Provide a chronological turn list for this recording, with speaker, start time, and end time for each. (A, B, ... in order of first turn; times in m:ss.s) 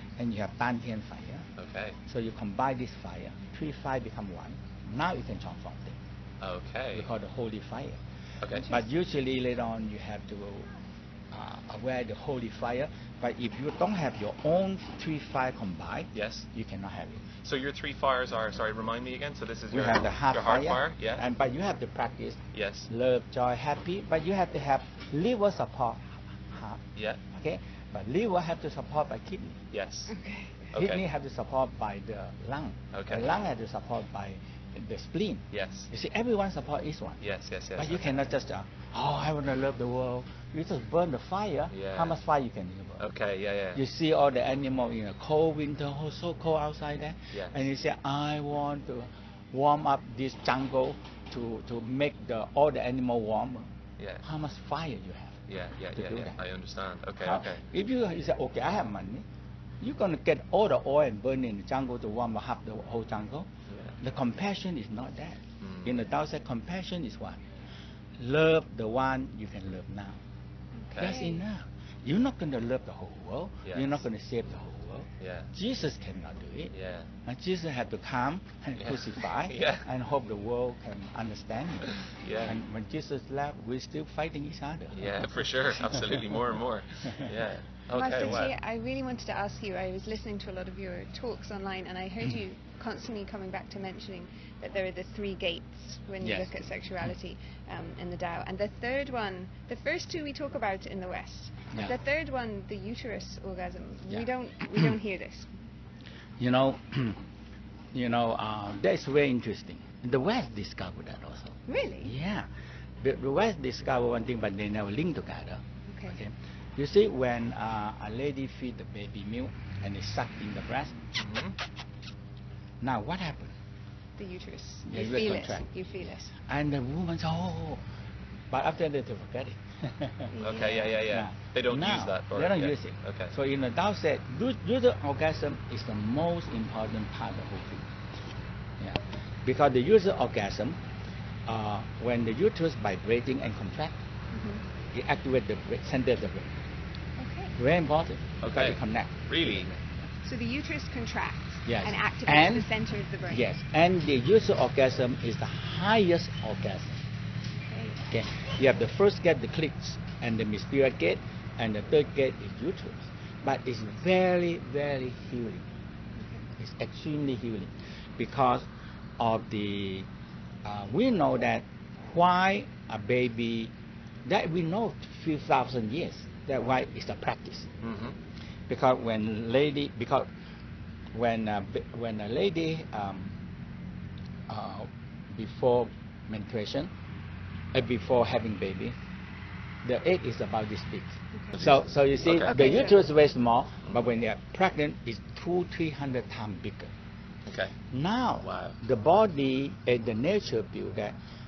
0:00.2-0:01.4 A
0:01.6-0:02.0 B
0:02.0-0:06.0 A
0:06.4-0:07.1 B
0:06.9-0:08.0 A
0:08.4-0:08.8 B
0:08.6-0:10.7 A
0:11.3-0:17.3 A
0:16.1-0:16.4 B
0:17.4-0:21.2 B
0:19.7-0:29.6 A
0:22.5-0:22.9 B
0:27.0-0:27.2 B
0:29.7-0:30.1 B
0:30.1-0:30.7 C
0:30.7-0:31.0 B
0:30.7-0:37.2 A
0:32.9-0:33.3 B
0:35.5-0:35.9 B
0:37.2-0:38.2 B
0:37.8-0:43.1 A
0:41.7-0:42.2 B
0:43.0-0:43.8 B
0:43.7-0:53.7 A
0:47.3-0:47.6 B
0:54.0-0:54.2 B
0:54.2-0:56.4 A
0:55.5-0:57.6 B
0:57.2-0:59.2 A
0:59.8-1:03.5 A
1:03.7-1:04.0 B
1:04.0-1:07.4 A
1:05.6-1:06.0 B
1:08.2-1:10.2 A
1:10.8-1:11.4 C
1:10.9-1:11.2 B
1:11.0-1:26.4 A
1:13.7-1:14.0 B
1:15.2-1:15.5 B
1:16.7-1:17.1 B
1:18.8-1:19.9 B
1:21.9-1:22.6 B
1:24.9-1:28.5 B
1:27.0-1:27.3 A
1:27.9-1:45.5 C
1:28.2-1:28.5 A
1:36.2-1:36.5 A
1:44.1-1:44.9 A
1:46.4-1:47.2 A
1:47.9-1:52.5 A
1:51.7-1:52.1 C
1:53.0-1:55.6 A
1:55.9-1:56.2 C
1:56.1-2:01.0 A
2:01.2-2:01.6 B
2:02.8-2:03.5 A
2:04.2-2:06.3 C
2:04.8-2:05.8 A
2:06.3-2:07.8 A
2:08.5-2:10.3 A
2:10.3-2:11.0 C
2:10.4-2:13.3 B
2:11.0-2:17.9 A
2:18.8-2:20.8 A
2:21.4-2:24.0 A
2:24.3-2:24.6 C
2:24.9-2:26.6 A
2:27.2-2:27.6 C
2:27.6-2:30.1 A
2:28.4-2:29.7 B
2:30.2-2:33.5 C
2:31.6-2:32.7 A
2:33.3-2:37.0 A
2:37.7-2:38.1 C
2:38.1-2:45.6 A
2:46.2-2:46.4 C
2:46.6-2:50.1 A
2:50.6-2:53.7 A
2:54.2-2:57.7 A
2:57.8-2:58.2 B
2:58.7-3:00.3 A
3:01.1-3:03.4 A
3:04.5-3:06.9 A
3:07.7-3:08.9 A
3:09.8-3:16.9 A
3:11.3-3:11.6 C
3:11.5-3:12.8 B
3:12.4-3:13.0 C
3:17.4-3:17.7 B
3:17.9-3:21.2 A
3:18.4-3:18.8 B